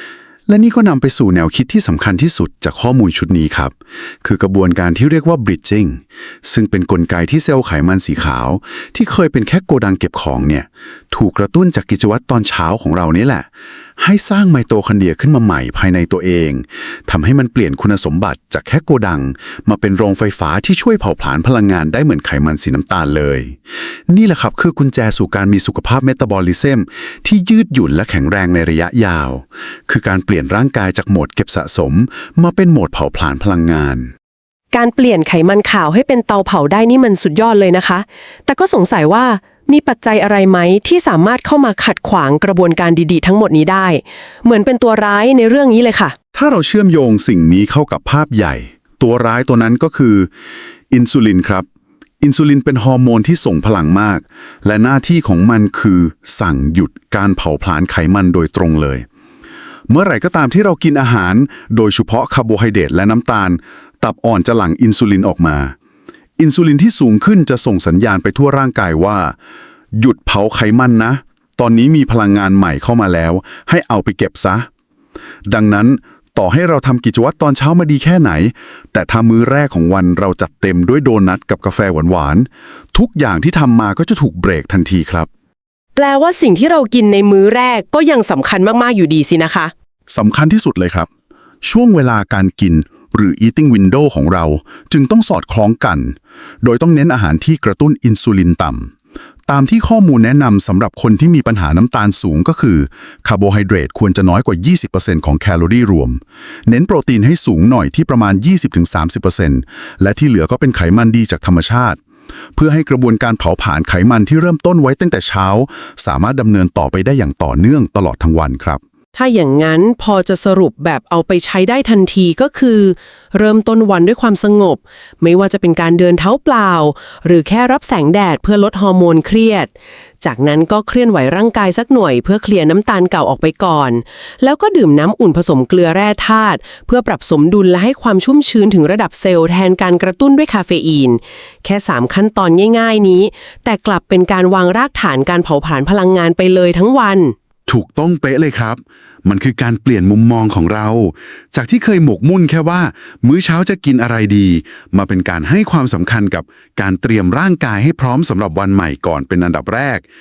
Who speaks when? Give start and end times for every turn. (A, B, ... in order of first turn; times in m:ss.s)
0:00.5-0:13.5 A
0:14.0-0:23.6 A
0:24.1-0:34.1 A
0:34.7-0:46.2 B
0:46.4-0:50.3 A
0:50.9-0:51.7 A
0:52.2-0:59.1 A
0:59.9-1:05.8 A
1:06.4-1:09.3 A
1:10.0-1:14.7 A
1:15.5-1:25.3 A
1:26.0-1:29.7 B
1:30.1-1:31.1 A
1:31.6-1:38.9 A
1:39.5-1:52.0 A
1:52.6-1:58.8 A
1:59.2-2:09.7 B
2:10.2-2:27.4 B
2:27.7-2:40.0 A